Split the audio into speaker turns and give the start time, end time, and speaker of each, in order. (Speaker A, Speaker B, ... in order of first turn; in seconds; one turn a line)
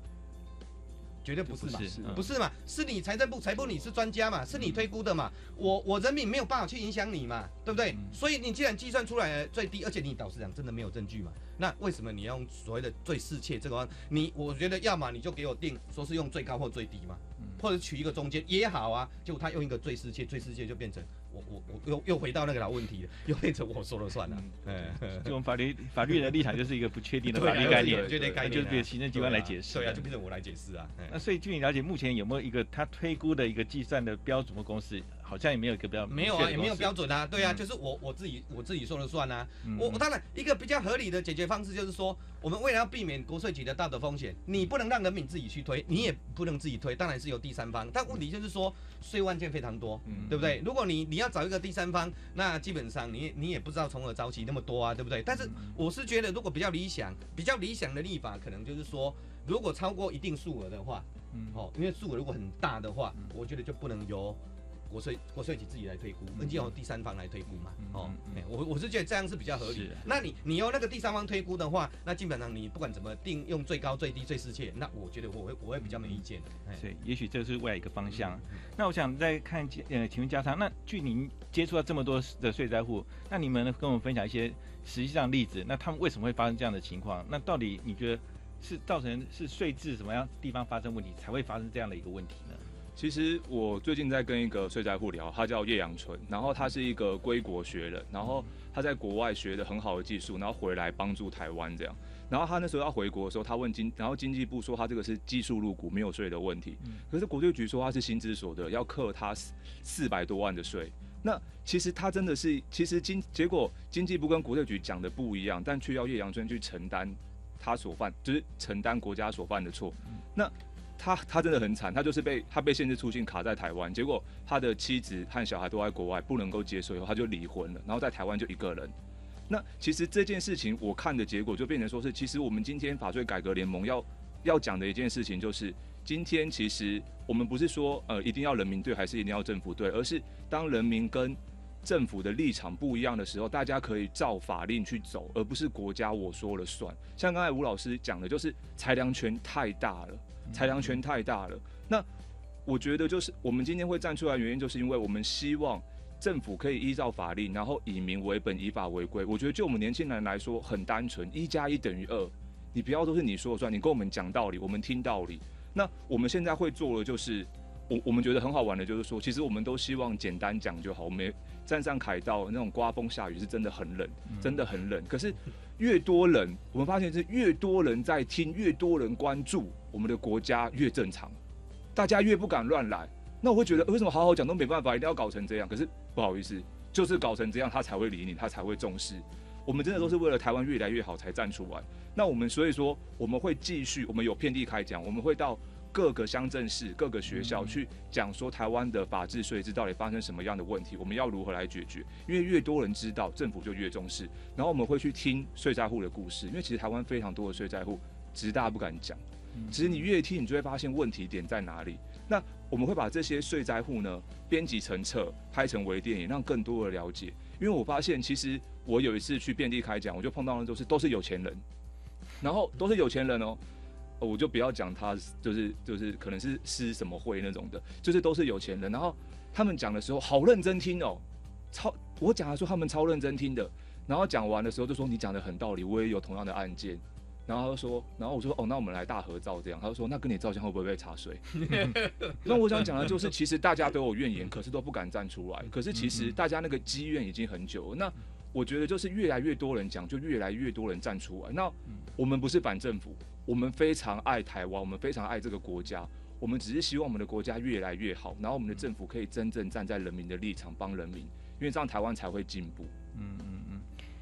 Speaker A: 1.2-25.3
Speaker B: 1.5-2.3
Speaker C: 24.3-24.6
Speaker B: 25.1-30.1
Speaker A: 27.3-31.2
Speaker C: 27.5-28.5
Speaker B: 31.1-37.0
Speaker A: 36.1-76.8
Speaker B: 39.6-40.0
Speaker C: 50.1-50.4
Speaker B: 50.1-50.6
Speaker B: 55.5-55.7
Speaker B: 61.3-61.6
Speaker B: 66.4-66.7
Speaker B: 67.8-68.4
Speaker B: 69.6-70.1
Speaker B: 76.7-92.7
Speaker A: 78.1-78.4
Speaker C: 93.0-128.9
Speaker C: 129.5-152.1
Speaker B: 150.5-150.9
Speaker C: 152.7-181.4
Speaker B: 174.3-174.6
Speaker C: 181.9-221.6
Speaker B: 209.6-210.1
Speaker C: 222.4-223.6
Speaker C: 224.2-262.9
Speaker A: 242.4-243.1
Speaker B: 246.1-246.3
Speaker B: 263.1-263.9